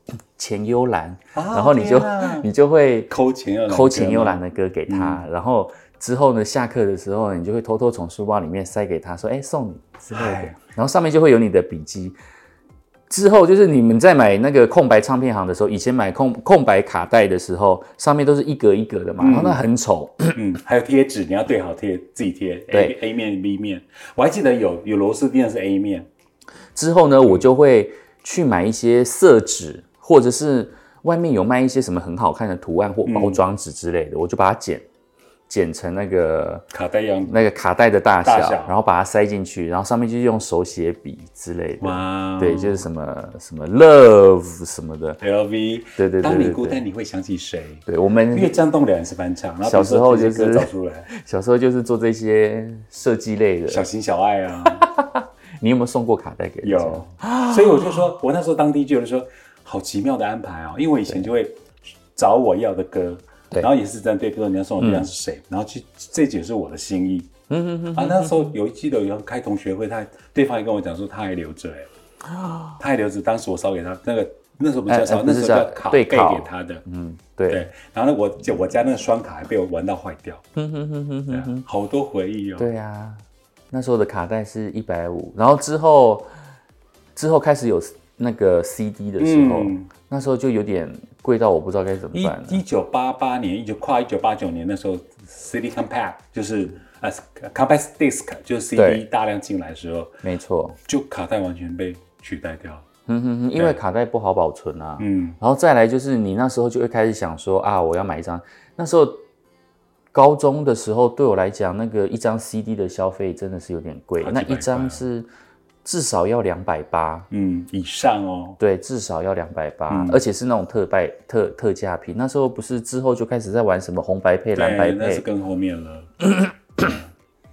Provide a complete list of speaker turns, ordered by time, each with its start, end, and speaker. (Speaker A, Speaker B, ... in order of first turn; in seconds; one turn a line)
Speaker A: 0.4-3.1
Speaker B: 1.3-2.5
Speaker B: 3.1-5.2
Speaker A: 3.7-12.2
Speaker B: 10.1-10.6
Speaker A: 13.1-20.4
Speaker B: 19.2-19.6
Speaker B: 20.4-26.1
Speaker A: 22.7-23.0
Speaker A: 26.8-34.8
Speaker B: 33.1-33.4
Speaker A: 35.5-36.6
Speaker B: 36.7-37.4
Speaker A: 37.3-45.2
Speaker B: 38.2-38.7
Speaker B: 41.8-42.9
Speaker B: 45.2-51.1
Speaker A: 46.0-46.8
Speaker A: 47.9-48.5
Speaker A: 49.6-53.9
Speaker B: 53.7-54.9
Speaker A: 54.6-58.0
Speaker B: 56.6-67.3
Speaker A: 64.8-65.1
Speaker A: 67.5-68.5
Speaker B: 67.9-71.9
Speaker A: 72.3-72.8
Speaker B: 72.8-76.8
Speaker A: 74.9-77.7
Speaker B: 77.5-80.4
Speaker A: 80.6-81.7
Speaker B: 81.3-82.7
Speaker A: 82.6-86.3
Speaker A: 87.2-92.6
Speaker B: 89.2-89.9
Speaker B: 92.1-100.2
Speaker A: 98.8-99.0
Speaker A: 100.2-100.8
Speaker B: 100.9-102.8
Speaker A: 103.1-109.2
Speaker B: 105.0-105.4
Speaker A: 110.1-115.3
Speaker B: 114.2-115.0
Speaker A: 115.8-117.3
Speaker B: 117.3-118.6
Speaker A: 118.6-125.3
Speaker B: 119.9-120.2
Speaker B: 124.5-126.1
Speaker A: 126.2-127.0